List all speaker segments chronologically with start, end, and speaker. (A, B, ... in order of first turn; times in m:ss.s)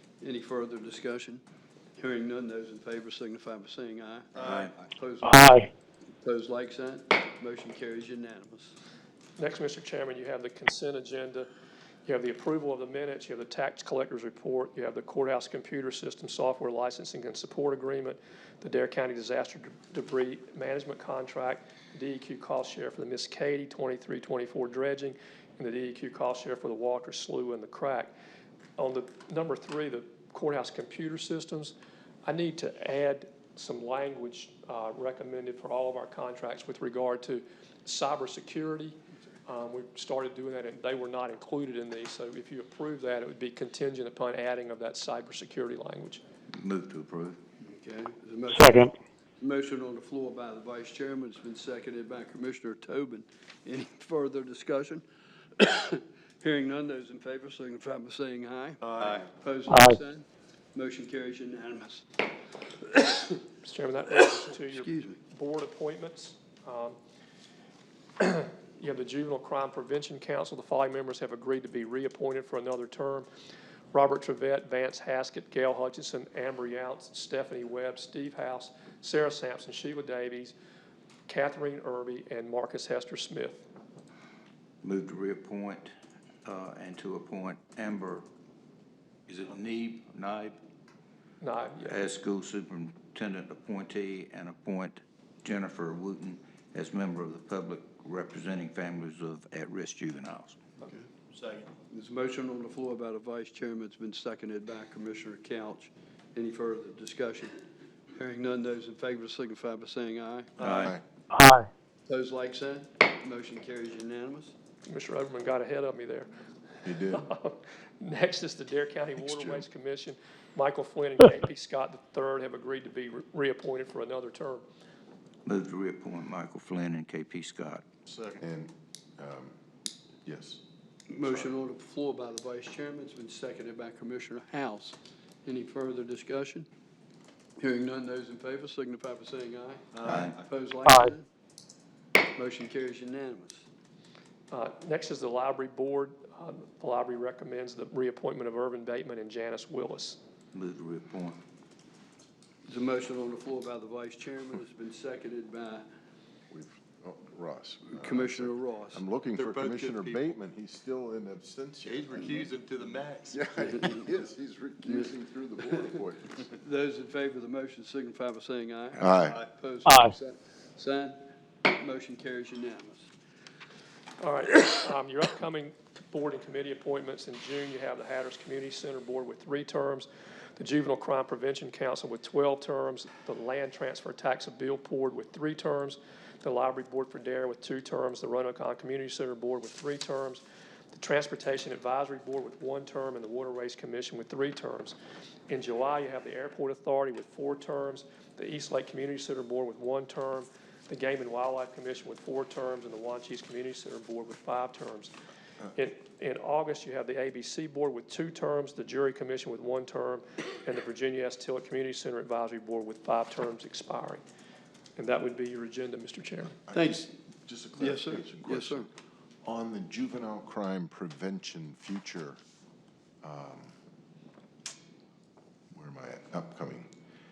0:00.2-0:01.4 A
0:02.0-0:05.6 A
0:04.4-0:04.7 B
0:05.2-0:05.7 C
0:06.2-0:08.7 A
0:09.4-0:11.5 D
0:12.0-0:28.1 D
0:28.8-0:46.2 D
0:46.5-0:47.4 B
0:47.6-0:55.0 A
0:48.5-0:48.9 C
0:55.6-1:02.0 A
0:58.8-0:59.2 E
0:59.7-1:00.0 C
1:03.5-1:07.0 D
1:04.7-1:05.2 A
1:08.2-1:13.3 D
1:13.9-1:20.5 D
1:21.3-1:23.7 D
1:24.8-1:25.9 B
1:26.4-1:28.2 B
1:29.3-1:30.6 B
1:31.4-1:32.0 D
1:31.8-1:40.6 B
1:41.3-1:41.7 E
1:41.9-1:47.5 A
1:48.1-1:50.5 A
1:50.6-1:50.9 B
1:50.6-1:50.9 E
1:51.3-1:51.7 C
1:52.1-1:54.5 A
1:54.8-1:56.3 D
1:56.8-1:57.2 F
1:57.0-2:04.6 D
1:59.2-1:59.6 F
2:05.4-2:07.8 B
2:08.1-2:08.4 E
2:08.3-2:09.5 F
2:10.2-2:10.6 F
2:11.1-2:16.7 A
2:17.6-2:21.3 A
2:20.0-2:20.3 E
2:20.0-2:20.4 B
2:20.8-2:21.1 C
2:22.3-2:23.6 A
2:24.5-2:30.2 D
2:30.5-2:31.4 B
2:32.6-2:35.8 A
2:36.5-2:42.5 F
2:37.9-2:39.0 A
2:39.3-2:40.3 E
2:41.8-2:43.4 E
2:43.3-2:46.4 F
2:43.7-2:43.9 A
2:45.8-2:53.1 A
2:49.0-2:49.4 F
2:49.2-2:49.5 E
2:49.8-2:50.1 C
2:54.2-3:10.4 D
3:10.9-3:14.9 D
3:15.5-3:25.1 D
3:25.7-3:34.2 D
3:35.0-3:36.6 D
3:36.7-3:38.9 F
3:36.7-3:37.1 A
3:37.8-3:38.9 A
3:39.4-3:42.4 F
3:43.2-3:43.7 F
3:45.7-3:46.9 F